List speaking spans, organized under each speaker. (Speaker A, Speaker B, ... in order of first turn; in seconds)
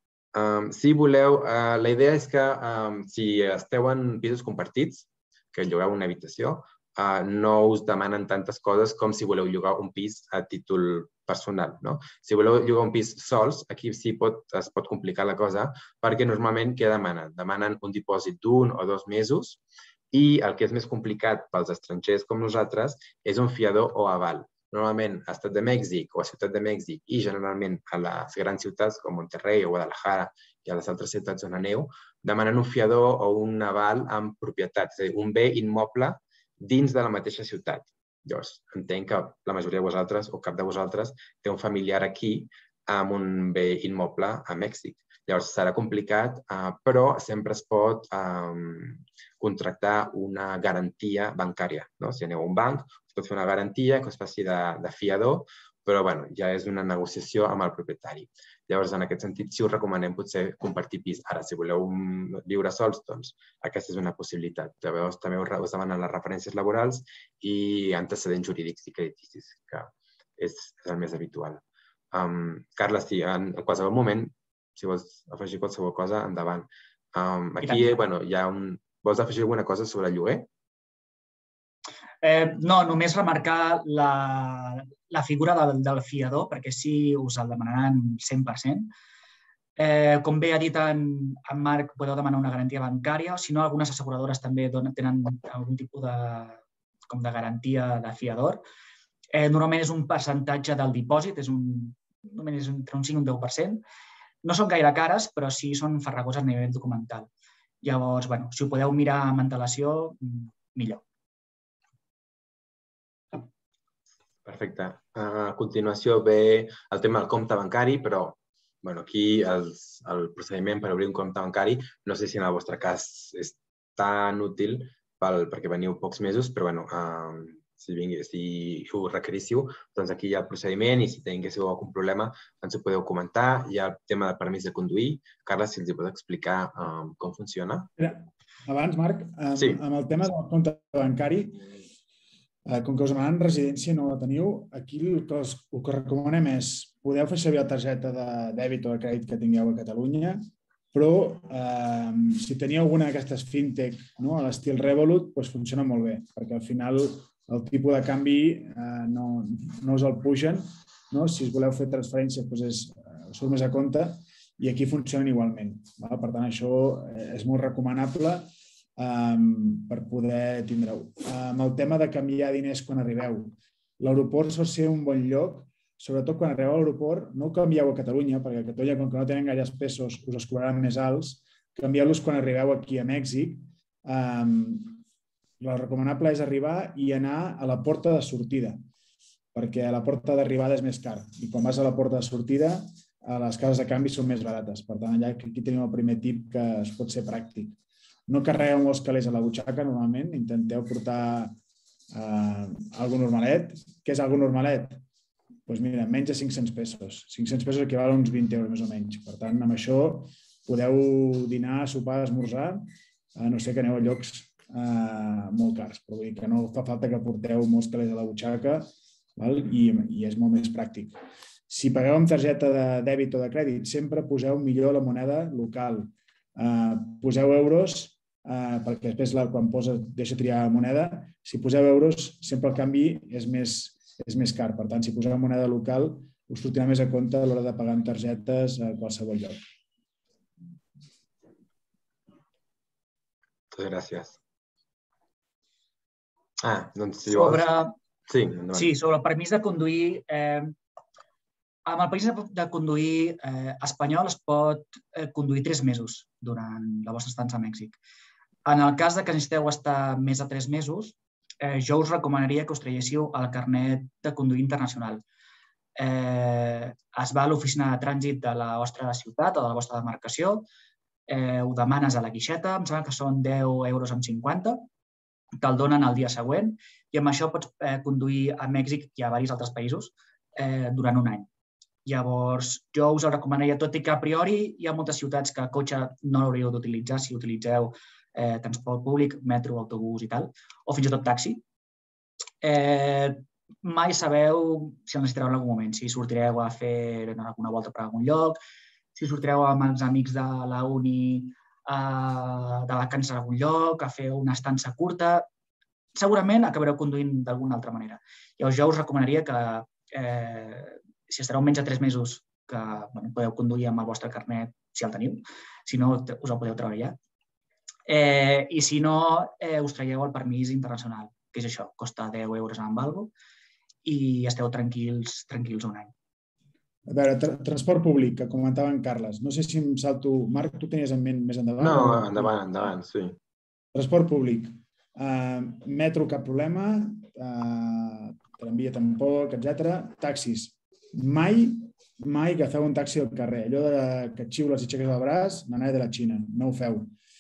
Speaker A: 0.3-80.5, 114.4-137.9, 139.6-139.8, 243.7-244.4, 246.6-247.7, 248.3-248.9, 331.8-333.4
Speaker B: 77.6-78.0, 82.2-88.9, 89.8-98.6, 99.3-103.8, 104.4-107.3, 107.8-111.0, 247.2-247.9, 248.7-250.7, 251.8-258.0, 258.6-265.2, 266.0-270.7, 271.3-274.9, 275.6-281.5, 282.0-291.6, 292.6-298.6, 299.1-305.5, 306.1-317.2, 318.1-323.3, 324.0-326.1
Speaker C: 138.0-141.6, 142.7-150.4, 150.9-185.0, 185.6-188.8, 189.5-201.5, 202.1-205.0, 205.7-212.8, 213.3-221.2, 221.7-239.6, 327.1-332.5, 333.9-347.1